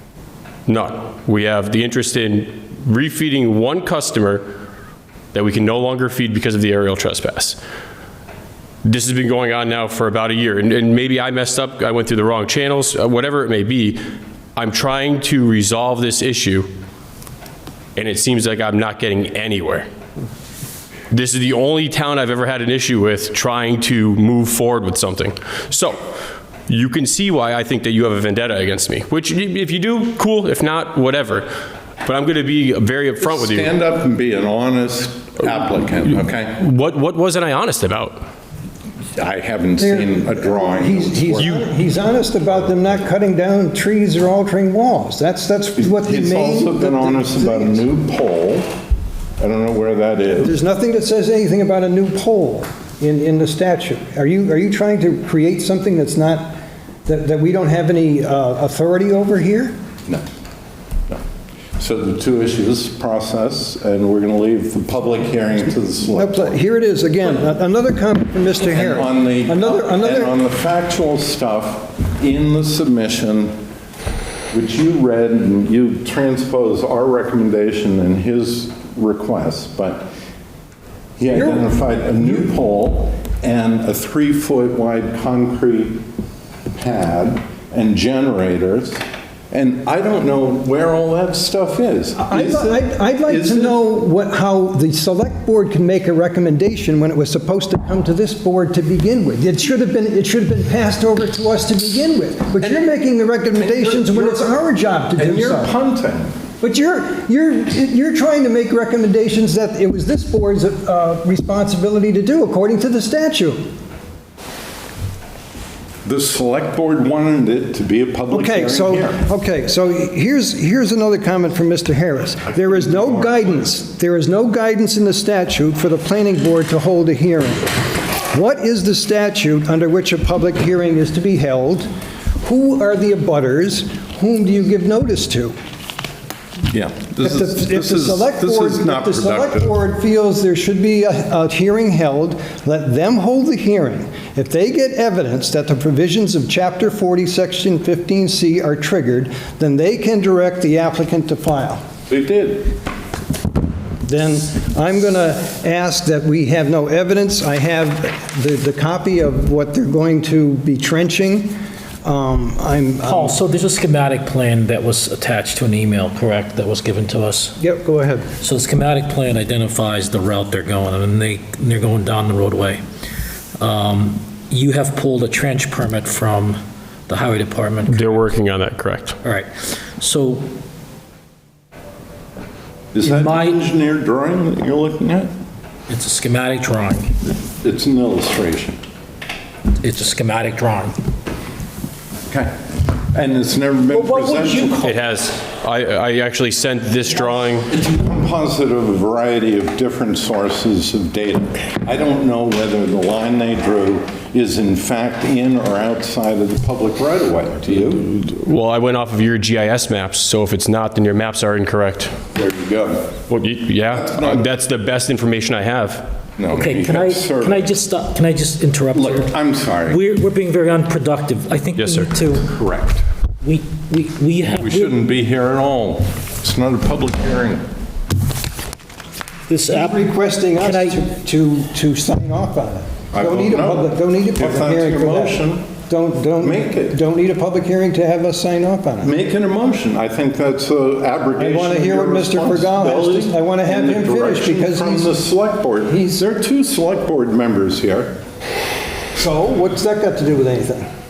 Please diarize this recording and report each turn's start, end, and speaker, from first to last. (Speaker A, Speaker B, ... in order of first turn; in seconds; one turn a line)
Speaker A: 0.7-4.5
Speaker A: 5.3-7.6
Speaker A: 8.8-14.0
Speaker A: 14.6-16.7
Speaker A: 17.9-19.9
Speaker A: 21.1-26.0
Speaker A: 26.7-31.5
Speaker A: 32.0-33.7
Speaker B: 33.2-36.6
Speaker A: 36.5-38.2
Speaker B: 39.1-41.6
Speaker C: 39.8-47.8
Speaker B: 45.8-48.7
Speaker B: 49.4-50.5
Speaker C: 50.4-59.8
Speaker B: 61.8-66.6
Speaker C: 66.1-70.3
Speaker B: 68.6-73.6
Speaker B: 74.5-80.1
Speaker B: 81.2-86.0
Speaker B: 86.7-93.8
Speaker C: 92.2-105.7
Speaker B: 103.5-104.5
Speaker B: 105.1-106.4
Speaker C: 106.6-113.6
Speaker B: 116.0-119.2
Speaker C: 118.3-131.9
Speaker B: 122.5-123.6
Speaker C: 132.4-135.5
Speaker B: 136.7-139.8
Speaker C: 137.2-151.8
Speaker B: 152.1-152.7
Speaker C: 154.0-163.4
Speaker D: 163.0-167.6
Speaker C: 167.6-168.3
Speaker D: 168.4-172.8
Speaker D: 173.6-178.3
Speaker A: 177.9-179.2
Speaker D: 179.2-180.5
Speaker B: 182.9-185.3
Speaker D: 183.0-183.6
Speaker D: 185.9-187.1
Speaker B: 187.4-188.8
Speaker D: 189.8-190.9
Speaker B: 192.3-192.5
Speaker B: 193.1-194.8
Speaker D: 193.9-195.0
Speaker A: 194.8-197.7
Speaker B: 197.7-208.1
Speaker A: 208.0-212.2
Speaker B: 212.3-213.2
Speaker A: 213.3-216.1
Speaker B: 213.9-214.5
Speaker B: 216.4-217.7
Speaker D: 216.5-222.5
Speaker B: 218.9-220.0
Speaker A: 221.8-222.1
Speaker B: 222.4-223.1
Speaker D: 223.4-224.9
Speaker B: 224.6-227.7
Speaker D: 229.5-231.0
Speaker C: 229.7-239.1
Speaker B: 233.1-235.7
Speaker B: 236.4-237.0
Speaker B: 239.0-248.2
Speaker C: 241.4-245.1
Speaker C: 245.9-246.2
Speaker C: 249.2-250.9